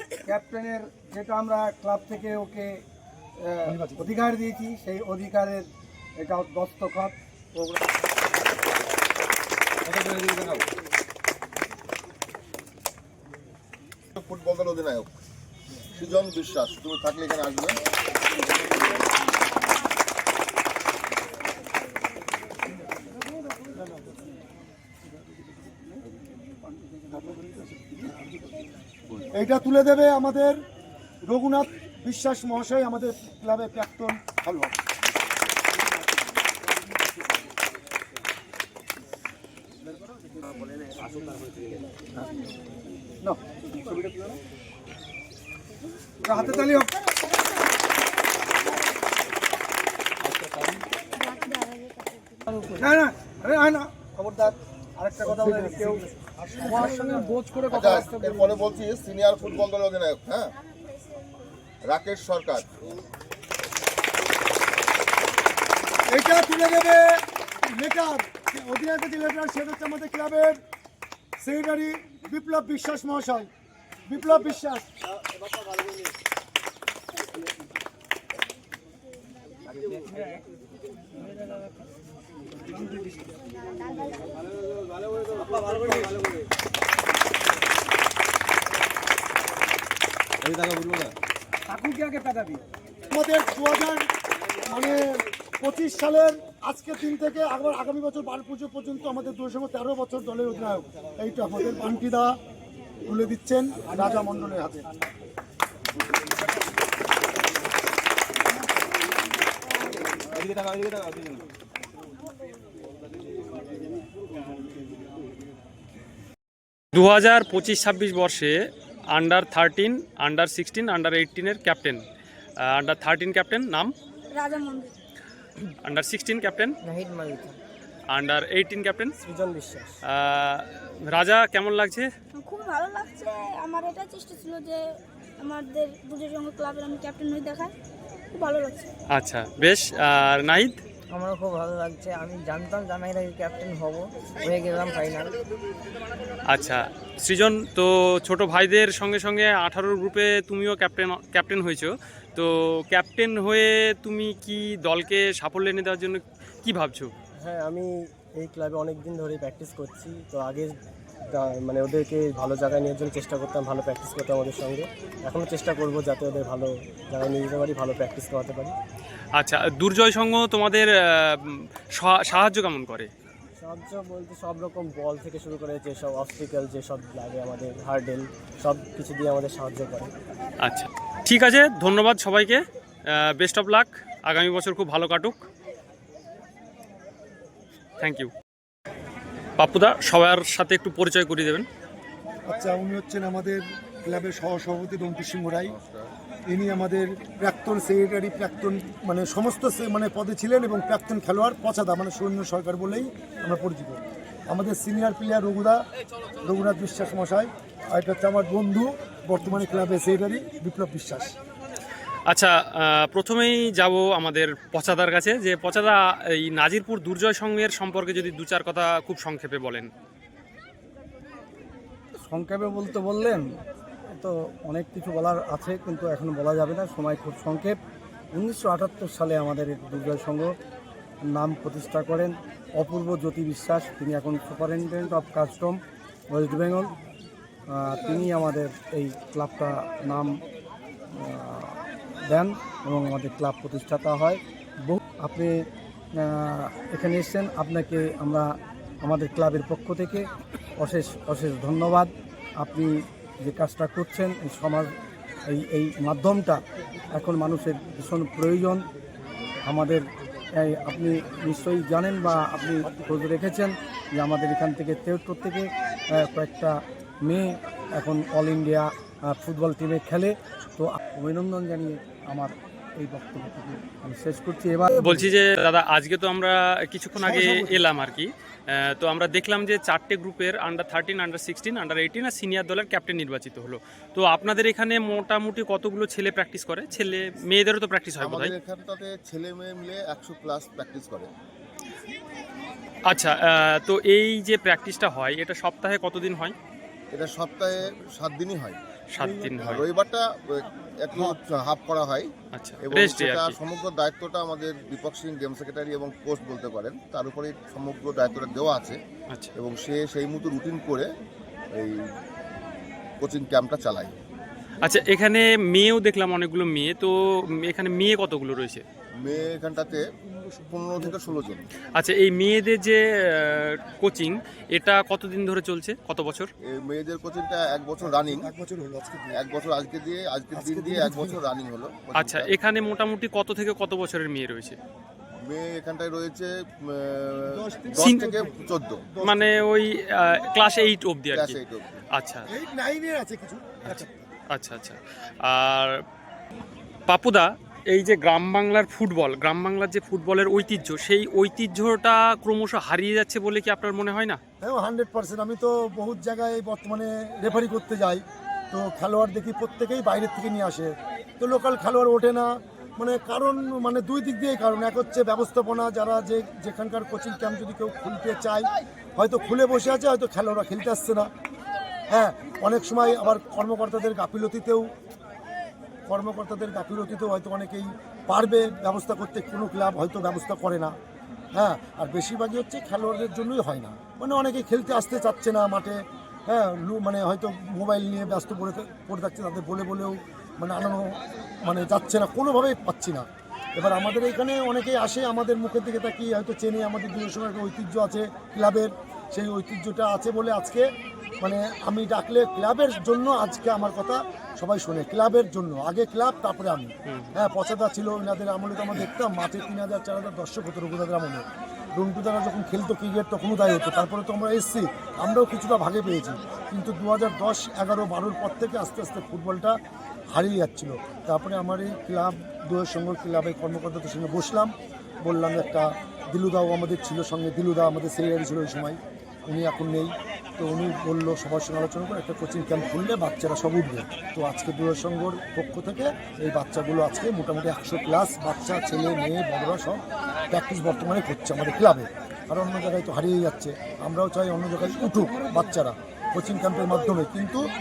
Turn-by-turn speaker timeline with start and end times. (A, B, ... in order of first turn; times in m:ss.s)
0:00.2-0:02.8 A
0:03.4-0:07.8 A
0:03.6-0:04.2 B
0:09.9-0:10.5 C
0:14.2-0:15.1 C
0:15.9-0:17.8 C
0:23.8-0:24.1 B
0:29.3-0:30.6 B
0:31.2-0:34.8 B
0:43.2-0:44.3 A
0:46.2-0:46.9 A
0:52.8-0:56.0 A
0:55.2-0:57.3 B
0:56.6-0:58.4 A
0:57.7-1:00.5 C
1:01.9-1:02.8 C
1:06.1-1:07.2 B
1:07.8-1:10.6 B
1:11.4-1:13.5 B
1:14.1-1:14.8 B
1:31.7-1:32.6 A
1:33.1-1:34.0 B
1:34.6-1:42.3 B
1:43.1-1:44.8 B
1:56.9-1:58.6 D
1:59.1-2:02.0 D
2:02.6-2:03.9 D
2:04.3-2:04.9 E
2:05.8-2:06.7 D
2:06.8-2:07.6 F
2:08.1-2:09.1 D
2:09.2-2:10.0 G
2:10.1-2:12.1 D
2:12.4-2:14.8 E
2:15.4-2:17.7 E
2:18.3-2:18.9 E
2:19.1-2:20.8 D
2:21.1-2:25.3 F
2:26.5-2:37.1 D
2:37.4-2:40.7 G
2:41.3-2:48.8 G
2:49.4-2:53.1 D
2:53.6-3:00.1 G
3:00.6-3:05.4 D
3:08.0-3:08.3 D
3:09.6-3:11.7 D
3:12.4-3:15.8 B
3:15.6-3:16.1 C
3:16.5-3:25.8 B
3:26.4-3:31.3 B
3:32.3-3:39.9 D
3:42.2-3:43.4 A
3:44.1-3:47.8 A
3:48.3-3:50.6 A
3:51.3-3:56.9 A
3:57.7-4:00.3 A
4:01.1-4:05.6 A
4:06.2-4:10.3 A
4:10.8-4:14.9 A
4:15.5-4:16.6 A
4:17.1-4:18.8 A
4:19.6-4:20.0 A
4:20.6-4:35.2 A
4:34.9-4:48.5 D
4:37.2-4:37.8 B
4:48.2-4:51.3 C
4:53.1-4:56.5 D
4:57.1-4:58.8 C
4:59.1-4:59.8 D
4:59.4-5:02.3 C
5:02.5-5:03.6 D
5:02.8-5:09.0 C
5:09.6-5:11.0 C
5:13.2-5:14.1 C
5:14.8-5:18.8 D
5:19.2-5:20.1 C
5:20.4-5:21.5 B
5:20.6-5:21.6 C
5:22.0-5:26.5 D
5:26.7-5:28.5 C
5:28.0-5:29.4 B
5:29.4-5:32.5 C
5:30.5-5:31.4 B
5:32.2-5:34.8 D
5:35.5-5:39.0 C
5:37.5-5:39.6 B
5:38.0-5:38.3 D
5:39.2-5:41.6 D
5:41.3-5:42.0 C
5:42.2-5:42.5 D
5:42.5-5:44.3 B
5:43.8-5:45.9 D
5:47.1-5:54.4 D
5:54.6-6:11.3 B
6:12.1-6:14.9 B
6:16.1-6:20.9 B
6:21.5-6:40.8 B
6:41.4-6:51.4 B
6:47.0-6:47.4 D
6:52.0-6:59.7 B
7:00.3-7:04.7 B
7:05.2-7:27.6 B